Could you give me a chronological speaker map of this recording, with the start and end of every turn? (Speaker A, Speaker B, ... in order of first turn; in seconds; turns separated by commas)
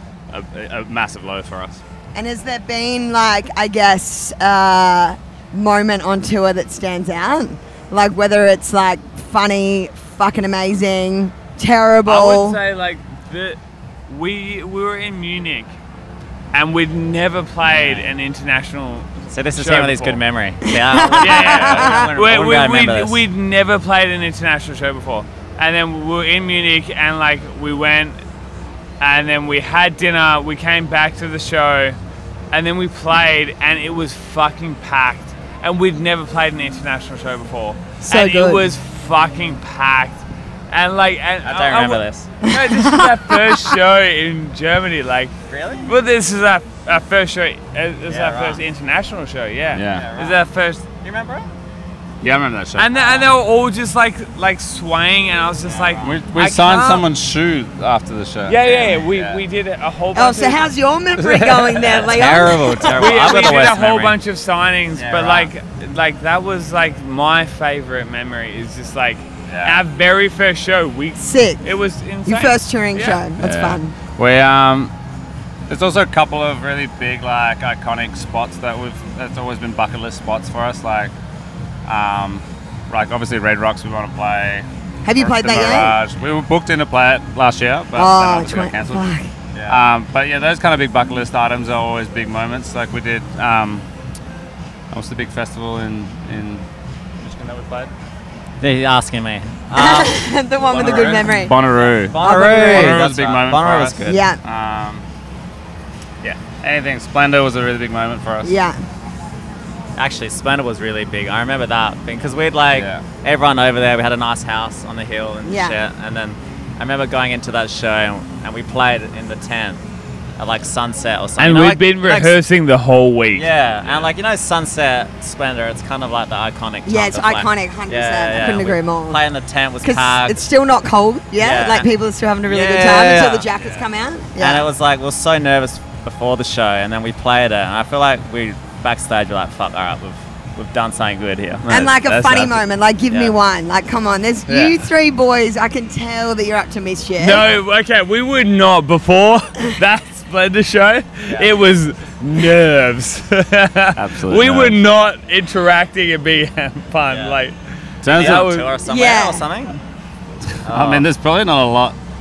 Speaker A: 0.3-1.8, Speaker B: 2.1-12.6, Speaker C: 12.1-15.8, Speaker C: 16.5-20.2, Speaker D: 17.8-18.1, Speaker D: 19.3-23.2, Speaker B: 20.6-22.1, Speaker C: 21.1-28.2, Speaker C: 29.0-32.0, Speaker C: 32.5-45.3, Speaker B: 38.0-38.7, Speaker D: 41.4-42.3, Speaker B: 42.4-43.5, Speaker D: 45.5-45.9, Speaker C: 45.8-50.8, Speaker D: 48.1-48.6, Speaker A: 49.7-50.1, Speaker D: 49.9-50.4, Speaker D: 51.0-51.5, Speaker A: 52.2-53.3, Speaker C: 52.8-56.8, Speaker D: 55.7-56.0, Speaker A: 56.0-59.4, Speaker B: 56.7-57.0, Speaker C: 58.5-60.6, Speaker B: 60.1-63.1, Speaker D: 61.7-64.2, Speaker C: 62.9-73.3, Speaker A: 64.9-65.5, Speaker A: 69.5-69.8, Speaker B: 71.2-71.7, Speaker B: 72.2-73.9, Speaker A: 73.4-74.9, Speaker A: 75.7-81.1, Speaker A: 81.8-89.0, Speaker B: 85.0-86.0, Speaker B: 88.0-89.3, Speaker A: 89.7-93.8, Speaker A: 94.9-96.6, Speaker A: 97.2-97.9, Speaker D: 98.6-100.2, Speaker B: 99.7-101.5, Speaker A: 100.7-105.0, Speaker D: 100.8-101.2, Speaker D: 101.7-104.2, Speaker B: 102.2-103.0, Speaker B: 104.0-104.4, Speaker A: 106.2-108.5, Speaker B: 108.4-108.8, Speaker D: 110.0-119.8, Speaker A: 112.7-113.0, Speaker B: 115.4-115.8, Speaker D: 120.4-122.3, Speaker C: 121.4-123.5, Speaker D: 123.3-130.4, Speaker A: 123.8-124.1, Speaker B: 126.8-129.2, Speaker B: 129.8-134.7, Speaker D: 131.4-131.9, Speaker D: 132.4-133.5, Speaker D: 134.3-141.7, Speaker B: 141.7-147.4, Speaker A: 141.7-142.5, Speaker D: 143.1-143.3, Speaker C: 147.2-157.6, Speaker D: 151.2-151.5, Speaker A: 153.9-154.8, Speaker D: 157.1-157.4, Speaker A: 158.0-158.5, Speaker C: 158.1-158.8, Speaker D: 158.1-159.8, Speaker B: 158.9-159.4, Speaker D: 160.7-161.0, Speaker A: 160.7-161.9